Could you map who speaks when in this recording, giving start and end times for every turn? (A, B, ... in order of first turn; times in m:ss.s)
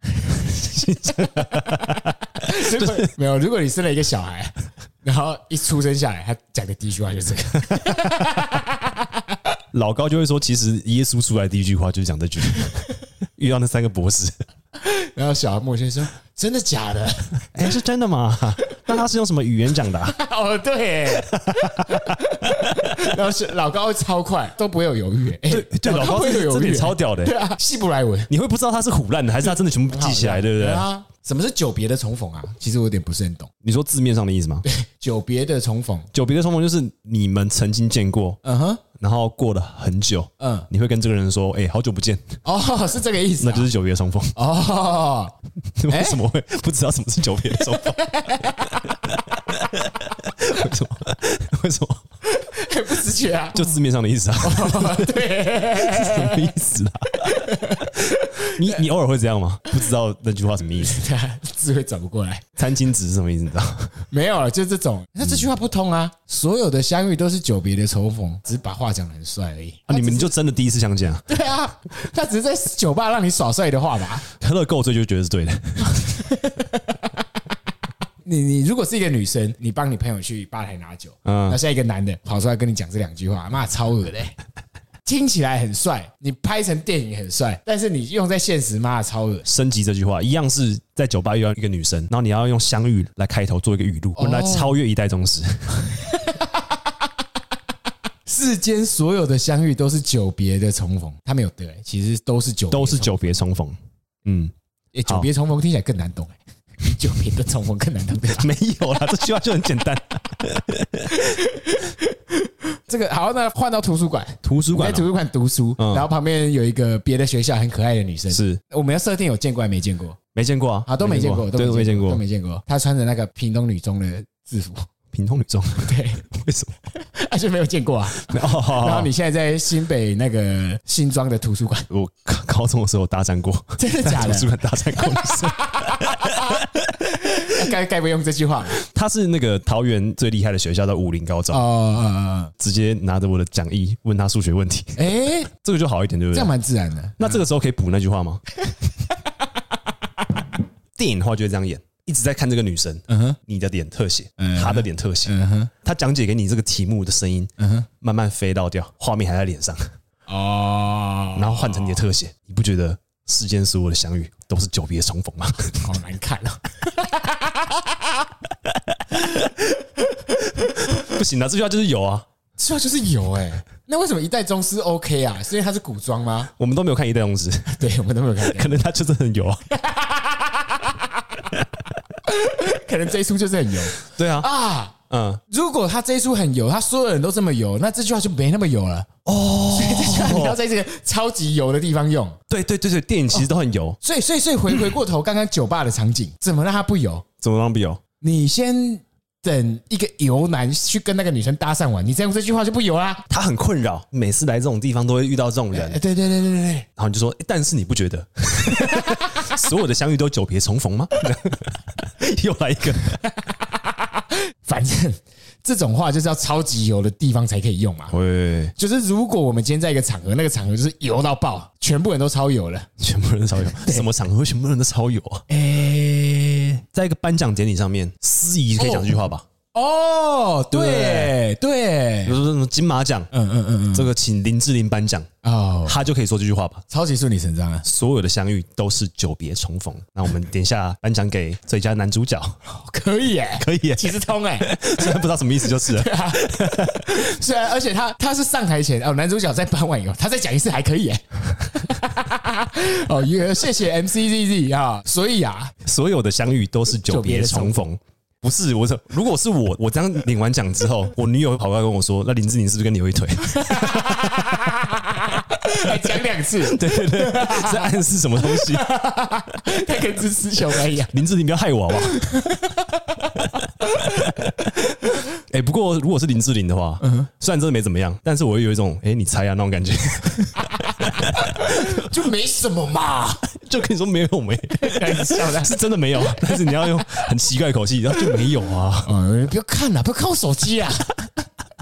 0:00.2-0:03.1 A
0:01.6-0:09.1 B
0:09.7-0:12.9 A
0:13.4-0:14.4 A
0:14.8-0:17.5 B
0:17.5-0:20.2 A
0:20.0-0:28.3 B
0:21.1-0:22.9 A
0:25.5-0:27.3 A
0:28.3-0:30.9 A
0:29.9-0:33.5 B
0:33.6-0:34.6 A
0:34.6-0:36.1 B
0:36.1-0:38.4 A
0:38.4-0:38.8 B
0:39.0-0:42.3 A
0:40.4-0:40.7 B
0:42.4-0:43.7 B
0:43.4-0:44.4 A
0:44.3-0:45.3 B
0:45.8-0:48.1 A
0:45.9-0:46.2 B
0:47.7-0:48.8 B
0:49.0-0:52.0 A
0:52.3-0:53.8 B
0:53.5-1:01.0 A
0:54.4-0:56.5 B
0:57.2-0:58.8 B
1:00.8-1:02.6 B
1:02.6-1:04.0 A
1:04.1-1:10.3 B
1:09.9-1:11.2 A
1:11.3-1:14.2 B
1:14.3-1:16.0 A
1:15.9-1:16.8 B
1:18.2-1:24.4 B
1:21.2-1:21.6 A
1:25.0-1:29.5 B
1:29.4-1:35.9 A
1:34.2-1:34.8 B
1:38.2-1:43.4 B
1:42.7-1:44.5 A
1:44.9-1:48.5 B
1:48.4-1:51.2 A
1:51.2-2:00.2 B
1:54.4-1:55.1 A
1:55.8-1:56.1 A
1:58.3-1:58.6 A
2:00.4-2:02.2 A
2:00.9-2:04.9 B
2:05.1-2:06.7 A
2:05.8-2:06.3 B
2:07.0-2:11.9 B
2:08.2-2:09.1 A
2:11.9-2:16.9 A
2:13.8-2:18.8 B
2:18.8-2:21.6 A
2:21.5-2:22.5 B
2:22.6-2:26.5 A
2:25.0-2:25.5 B
2:26.3-2:27.4 B
2:27.2-2:28.4 A
2:31.0-2:37.5 A
2:33.1-2:33.4 B
2:34.4-2:35.7 B
2:37.6-2:37.9 B
2:38.0-2:39.9 A
2:40.3-2:42.0 B
2:41.4-2:46.0 A
2:45.8-2:48.2 B
2:48.7-2:49.4 A
2:50.2-2:50.8 B
2:50.9-2:52.2 A
2:52.6-2:56.5 B
2:56.6-2:57.9 A
2:57.7-2:58.8 B
2:58.4-2:59.7 A
2:59.7-3:01.5 B
3:02.2-3:04.9 B
3:04.0-3:04.5 A
3:05.1-3:05.4 A
3:05.5-3:09.1 B
3:09.2-3:10.6 A
3:09.7-3:12.4 B
3:12.5-3:14.0 A
3:14.0-3:17.2 B
3:17.4-3:18.0 A
3:18.2-3:23.3 B
3:23.3-3:26.0 A
3:25.7-3:26.9 B
3:27.0-3:33.2 A
3:28.7-3:29.5 B
3:34.1-3:38.1 B
3:38.1-3:38.7 A
3:38.8-3:42.9 B
3:43.0-3:45.4 A
3:43.8-3:44.1 B
3:45.5-3:46.8 B
3:46.9-3:49.4 A
3:48.8-3:49.2 B
3:49.7-3:52.4 B
3:50.7-3:51.4 A
3:52.2-3:53.3 A
3:53.3-3:54.1 B
3:53.9-3:55.3 A
3:55.4-3:56.0 B
3:55.9-3:56.8 A
3:56.9-3:57.8 B
3:57.8-4:02.6 A
4:02.7-4:15.8 B
4:03.6-4:07.3 A
4:15.8-4:24.6 A
4:17.1-4:17.9 B
4:23.5-4:31.1 B
4:25.9-4:28.9 A
4:31.1-4:32.2 A
4:32.0-4:34.3 B
4:34.3-4:34.7 A
4:35.5-4:42.1 A
4:41.3-4:43.5 B
4:43.5-4:49.1 A
4:44.8-4:47.2 B
4:49.0-4:51.2 B